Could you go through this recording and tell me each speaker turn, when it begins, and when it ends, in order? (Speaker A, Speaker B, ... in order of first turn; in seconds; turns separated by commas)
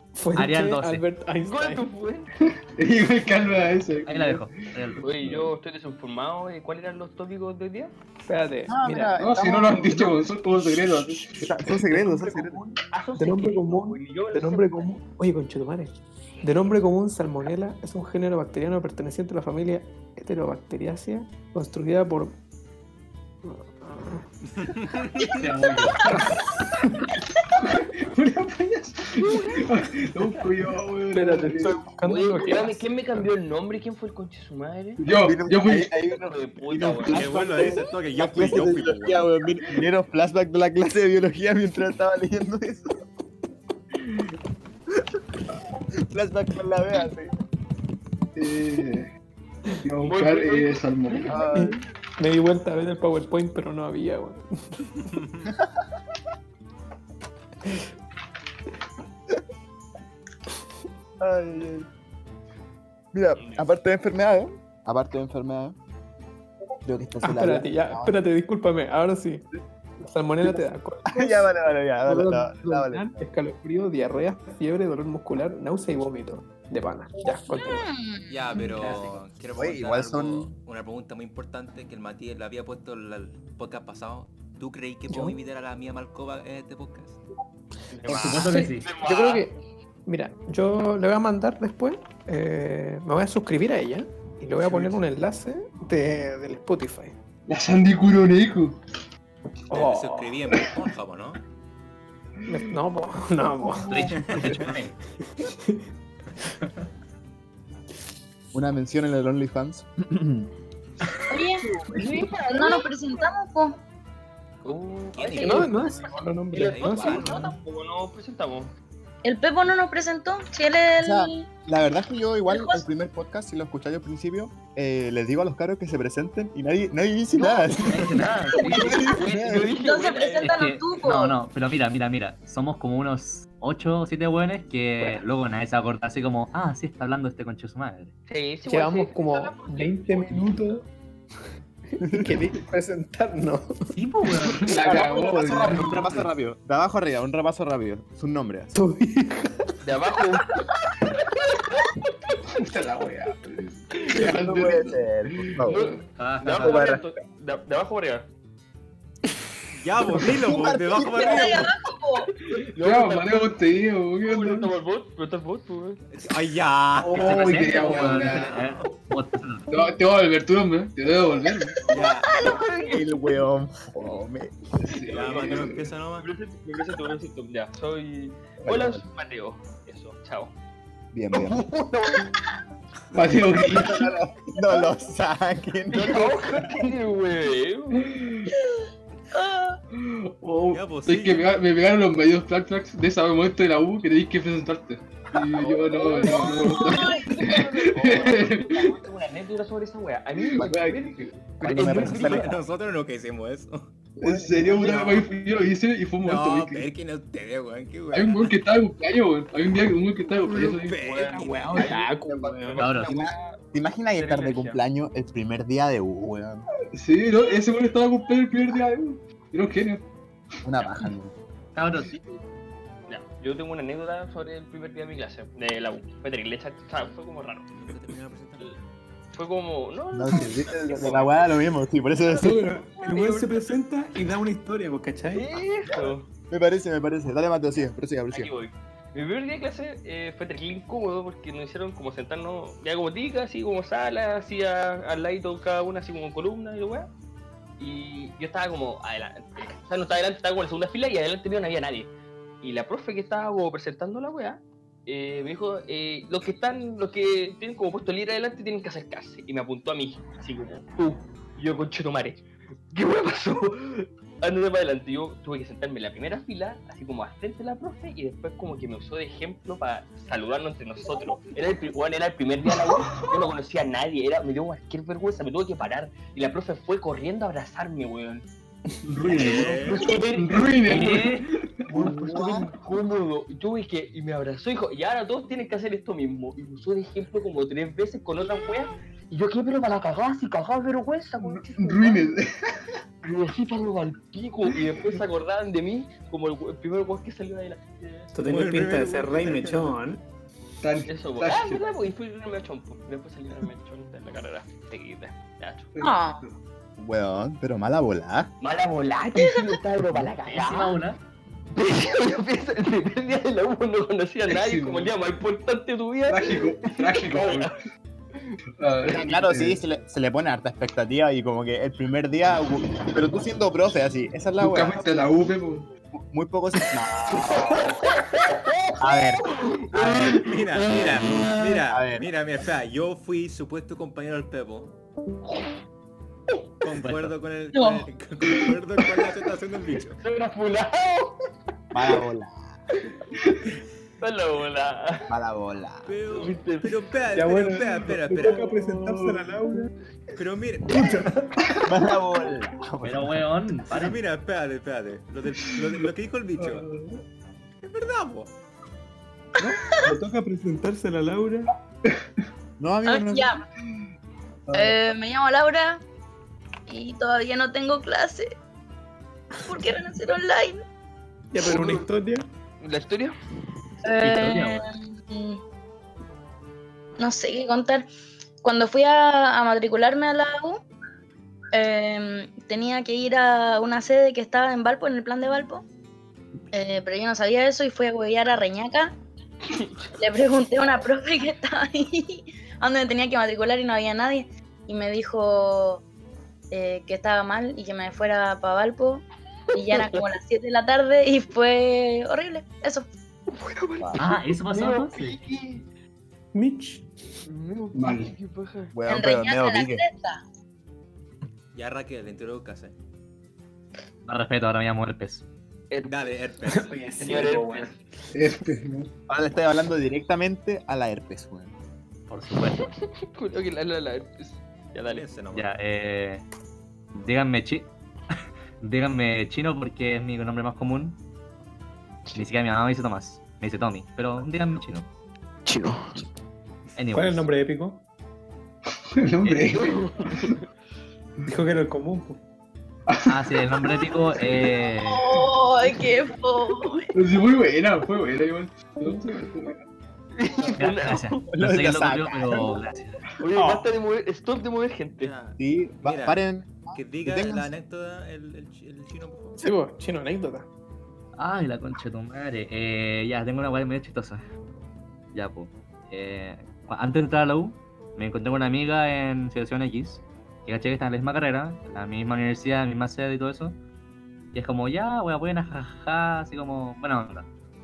Speaker A: 0.1-1.9, Speaker B: 0.4-1.0, Speaker C: 1.4-2.3, Speaker D: 2.8-5.5, Speaker B: 4.0-5.3, Speaker C: 5.0-7.9, Speaker A: 8.2-9.1, Speaker E: 8.7-10.2, Speaker D: 9.2-11.5, Speaker E: 11.4-12.6, Speaker A: 11.9-22.4, Speaker C: 12.9-14.9, Speaker A: 23.4-24.2, Speaker F: 24.6-25.4, Speaker B: 25.3-26.0, Speaker D: 27.6-31.8, Speaker C: 29.2-29.7, Speaker C: 30.2-30.5, Speaker A: 31.1-32.9, Speaker C: 32.0-35.0, Speaker D: 35.0-35.9, Speaker E: 35.2-37.2, Speaker C: 36.0-37.8, Speaker F: 37.1-39.3, Speaker E: 38.1-43.0, Speaker E: 46.1-47.3, Speaker D: 48.4-49.1, Speaker D: 49.8-51.4, Speaker C: 50.0-51.4, Speaker E: 51.3-51.8, Speaker A: 51.5-55.0, Speaker F: 55.2-55.5, Speaker E: 61.2-61.9, Speaker E: 63.1-65.8, Speaker C: 63.4-63.7, Speaker E: 66.8-68.2, Speaker A: 67.2-69.5, Speaker A: 70.0-71.5, Speaker E: 70.5-73.3, Speaker A: 72.0-77.9, Speaker G: 77.5-78.6, Speaker F: 78.3-87.2, Speaker A: 78.8-79.1, Speaker E: 79.6-80.5, Speaker A: 85.1-85.4, Speaker C: 87.9-89.5, Speaker B: 88.1-88.9, Speaker A: 88.2-97.2, Speaker D: 94.7-95.0, Speaker D: 97.5-98.8, Speaker A: 99.7-100.4, Speaker F: 99.7-101.4, Speaker A: 102.5-104.0, Speaker B: 103.9-104.9, Speaker F: 104.1-104.8, Speaker A: 105.3-105.8, Speaker E: 108.5-110.5, Speaker G: 111.3-111.7, Speaker C: 111.9-113.0, Speaker G: 112.5-113.8, Speaker F: 114.6-117.5, Speaker C: 114.6-115.9, Speaker A: 115.4-117.5, Speaker C: 116.5-118.7, Speaker G: 119.2-121.5, Speaker E: 121.0-128.2, Speaker G: 122.5-122.8, Speaker C: 127.4-130.7, Speaker B: 127.9-129.1, Speaker E: 128.7-129.7, Speaker G: 129.6-131.4, Speaker B: 130.4-138.1, Speaker A: 135.0-135.2, Speaker C: 138.3-140.8, Speaker A: 138.7-140.8, Speaker A: 142.0-143.7, Speaker E: 142.0-142.4, Speaker B: 143.9-144.8, Speaker D: 144.4-146.2, Speaker E: 144.8-148.8, Speaker A: 148.8-149.6, Speaker C: 149.8-150.6, Speaker D: 152.6-155.8, Speaker E: 154.2-155.8, Speaker C: 155.6-158.3, Speaker B: 156.2-156.8, Speaker E: 156.5-157.0, Speaker F: 159.7-161.7, Speaker E: 160.2-161.7, Speaker G: 161.2-162.3, Speaker C: 162.7-163.5, Speaker D: 162.8-164.7, Speaker C: 164.2-166.0, Speaker F: 166.1-168.5, Speaker D: 167.0-168.6, Speaker C: 167.2-168.7, Speaker B: 167.3-169.7, Speaker D: 169.7-171.9, Speaker C: 171.9-173.2, Speaker F: 171.9-172.3, Speaker E: 172.9-174.6, Speaker D: 174.8-175.8, Speaker C: 174.9-180.5, Speaker F: 175.1-176.3, Speaker E: 178.6-179.0, Speaker E: 181.1-181.6, Speaker C: 181.3-182.3, Speaker D: 183.1-184.1, Speaker E: 183.6-186.4, Speaker C: 185.9-188.2, Speaker D: 188.0-188.5, Speaker G: 189.3-189.8, Speaker D: 189.9-199.0, Speaker F: 190.7-191.5, Speaker C: 195.5-202.4, Speaker G: 196.7-197.5, Speaker D: 200.4-201.4, Speaker E: 201.6-202.5, Speaker F: 201.7-203.9, Speaker D: 204.2-206.9, Speaker C: 204.8-205.2, Speaker F: 204.8-205.1, Speaker F: 206.2-208.6, Speaker D: 208.1-211.0, Speaker F: 210.5-211.9, Speaker C: 211.0-213.6, Speaker A: 211.3-212.8, Speaker B: 212.8-213.1, Speaker E: 213.0-216.7, Speaker C: 214.1-214.8, Speaker D: 216.9-220.0, Speaker E: 220.6-221.3, Speaker B: 221.8-222.2, Speaker C: 223.1-227.7, Speaker F: 227.7-228.7, Speaker C: 229.3-231.6, Speaker E: 230.1-232.7, Speaker C: 232.2-233.6, Speaker A: 232.4-235.6, Speaker C: 235.3-236.3, Speaker E: 236.5-238.5, Speaker C: 238.3-247.1, Speaker C: 247.8-252.1, Speaker C: 252.6-278.4, Speaker D: 272.9-273.5, Speaker D: 279.0-282.1, Speaker C: 279.2-281.3, Speaker F: 279.3-280.2, Speaker B: 280.8-281.5, Speaker C: 281.9-292.3, Speaker E: 282.2-282.6, Speaker D: 291.4-292.7, Speaker C: 293.2-298.3, Speaker A: 298.3-300.2, Speaker F: 298.4-300.0, Speaker D: 300.8-301.8, Speaker C: 301.0-305.9, Speaker D: 305.9-306.5, Speaker G: 306.0-306.4, Speaker E: 307.0-308.5, Speaker C: 308.6-311.0, Speaker B: 310.5-311.2, Speaker C: 311.7-317.7, Speaker D: 314.5-315.1, Speaker D: 316.3-317.7, Speaker D: 318.8-319.8, Speaker E: 319.1-325.1, Speaker D: 324.6-325.9, Speaker E: 326.3-327.8, Speaker C: 327.3-331.8, Speaker E: 329.0-329.4, Speaker F: 330.0-334.9, Speaker E: 331.9-332.2, Speaker F: 336.8-340.2, Speaker B: 336.9-337.4, Speaker G: 337.7-338.1, Speaker C: 340.2-341.4, Speaker E: 341.9-342.6, Speaker C: 344.2-345.3, Speaker E: 345.3-346.1, Speaker F: 346.1-348.7, Speaker C: 346.3-347.1, Speaker A: 347.3-349.9, Speaker D: 348.1-349.5, Speaker F: 350.4-351.3, Speaker A: 350.9-351.5, Speaker E: 351.9-353.5, Speaker B: 353.0-354.2, Speaker F: 353.9-356.9, Speaker D: 356.6-357.2, Speaker F: 357.8-358.5, Speaker A: 360.0-361.7, Speaker E: 362.8-363.6, Speaker G: 363.1-363.6, Speaker D: 364.7-365.0, Speaker G: 364.7-366.0, Speaker G: 366.9-368.6, Speaker G: 369.6-370.8, Speaker A: 371.5-372.5, Speaker C: 371.7-372.0, Speaker C: 372.8-373.3, Speaker G: 374.0-375.6, Speaker B: 374.2-374.9, Speaker G: 377.2-378.1, Speaker G: 378.6-380.8, Speaker G: 381.7-385.8, Speaker G: 386.7-389.1, Speaker C: 389.7-390.1, Speaker G: 390.2-396.0, Speaker G: 396.7-403.1, Speaker C: 399.7-400.3, Speaker C: 403.5-405.9, Speaker B: 404.2-405.4, Speaker A: 406.5-407.1, Speaker C: 407.4-409.0, Speaker D: 407.9-408.3, Speaker E: 408.9-410.0, Speaker G: 409.1-410.4, Speaker F: 411.7-412.9, Speaker B: 414.2-415.4, Speaker C: 415.9-416.4, Speaker F: 416.1-417.5, Speaker A: 416.7-417.9, Speaker C: 417.2-417.9, Speaker D: 418.3-419.1, Speaker E: 419.3-421.7, Speaker B: 422.3-422.9, Speaker C: 422.5-425.3, Speaker F: 425.1-425.7, Speaker B: 425.5-426.4, Speaker B: 427.1-431.2, Speaker B: 432.4-435.1, Speaker B: 436.9-437.5, Speaker A: 437.1-438.0, Speaker D: 439.1-440.5, Speaker B: 439.4-439.8, Speaker C: 439.7-440.6, Speaker A: 441.4-442.4, Speaker D: 443.1-443.9, Speaker B: 443.3-445.3, Speaker G: 445.0-447.1, Speaker D: 447.1-449.8, Speaker A: 449.0-449.5, Speaker C: 450.4-451.5, Speaker B: 450.8-453.2, Speaker E: 451.5-452.7, Speaker C: 453.4-455.3, Speaker F: 455.2-456.4, Speaker E: 455.6-457.7, Speaker F: 456.9-459.6, Speaker A: 459.6-460.7, Speaker B: 461.4-464.4, Speaker B: 465.3-473.8, Speaker B: 474.5-477.5